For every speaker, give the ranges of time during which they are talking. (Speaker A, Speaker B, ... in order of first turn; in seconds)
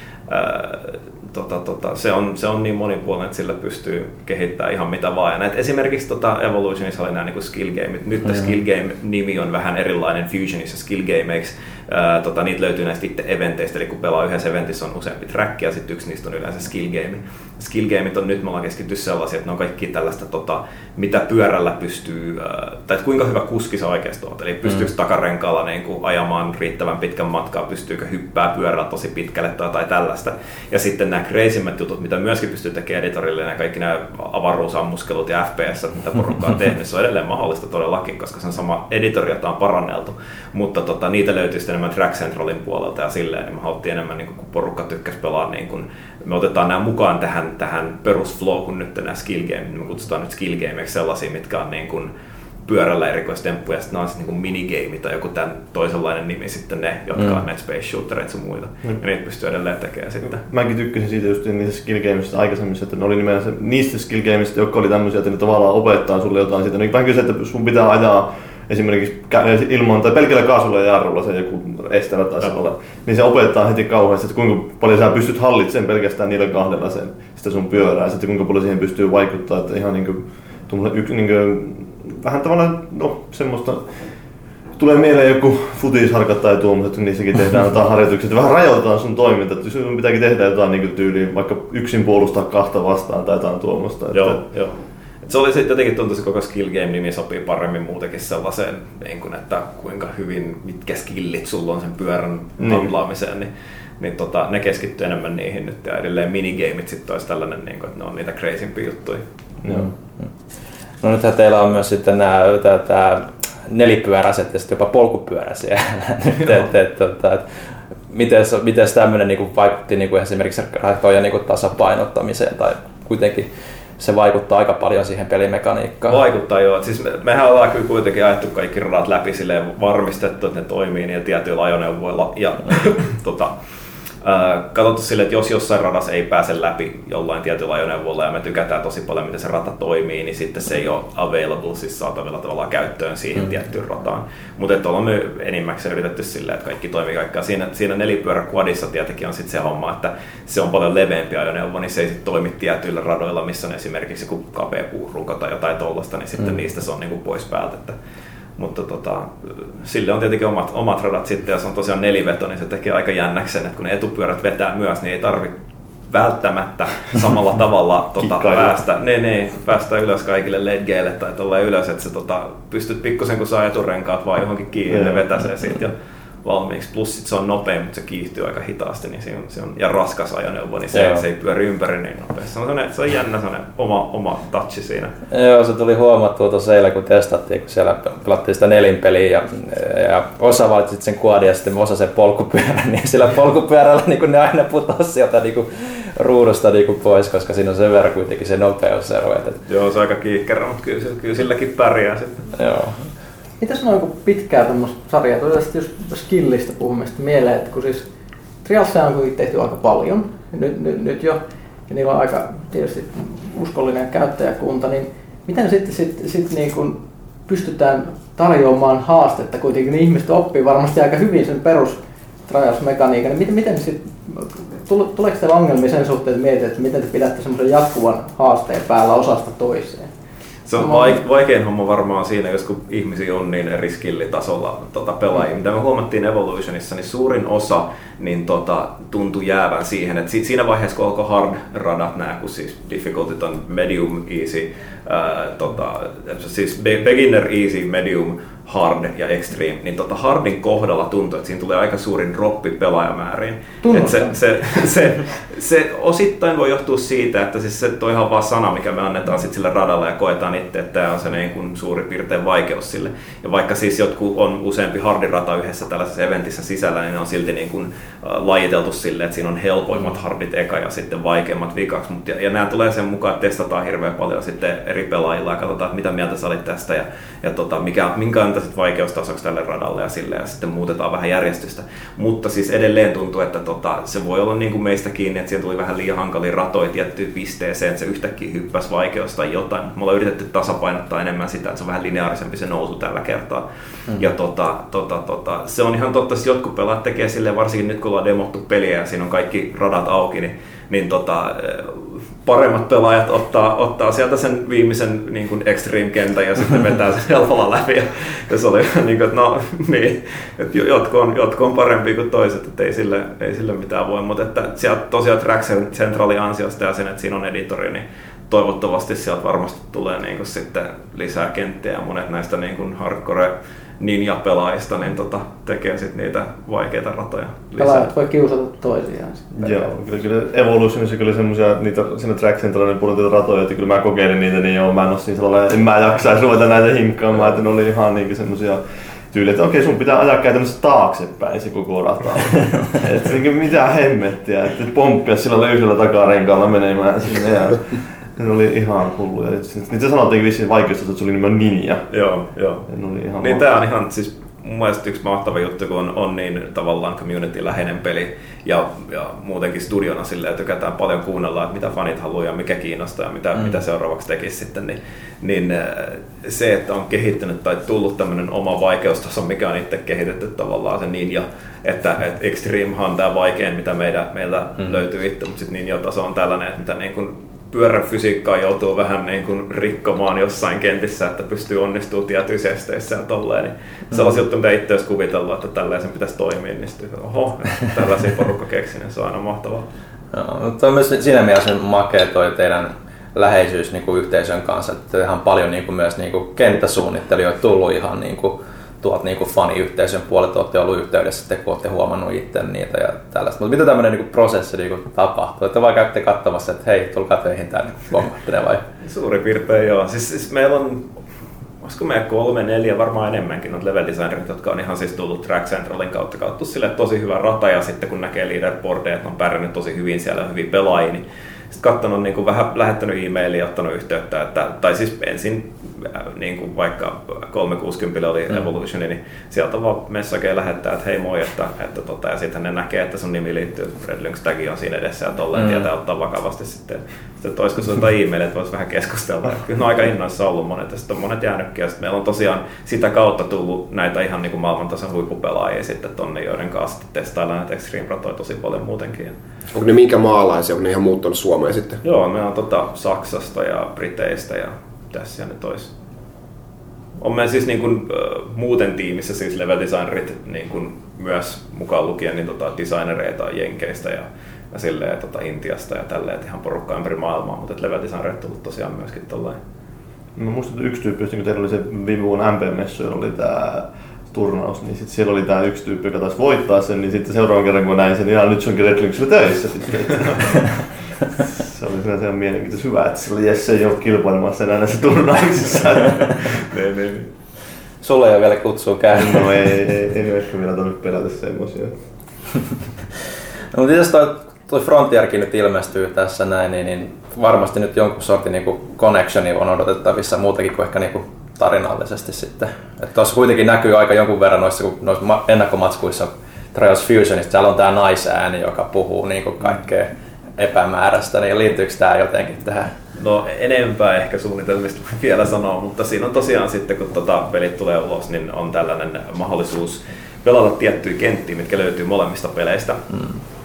Speaker A: 0.3-52.1, 52.6-60.5, 94.1-109.2, 126.0-133.5, 134.2-158.0, 158.6-165.5, 166.1-185.2, 199.7-202.4, 230.7-328.1, 352.1-352.9, 353.4-389.9, 409.0-411.1, 411.8-449.3, 452.0-455.9, 457.2-469.6, 486.7-487.3, 513.2-523.0
Speaker B: 60.5-84.0, 84.8-94.4, 102.6-102.9, 109.6-109.9, 168.2-168.8, 174.9-175.2, 329.5-352.1, 352.9-353.7, 470.3-480.8, 481.5-486.7, 489.1-492.0
Speaker C: 111.0-126.2, 180.9-181.2, 185.3-199.6, 202.5-203.1, 384.1-384.4, 390.3-408.9, 435.5-435.9, 488.0-489.6, 493.7-513.0
Speaker D: 203.6-208.0, 208.6-230.1, 230.8-231.2, 253.8-254.4, 327.8-329.9
Speaker E: 449.7-452.0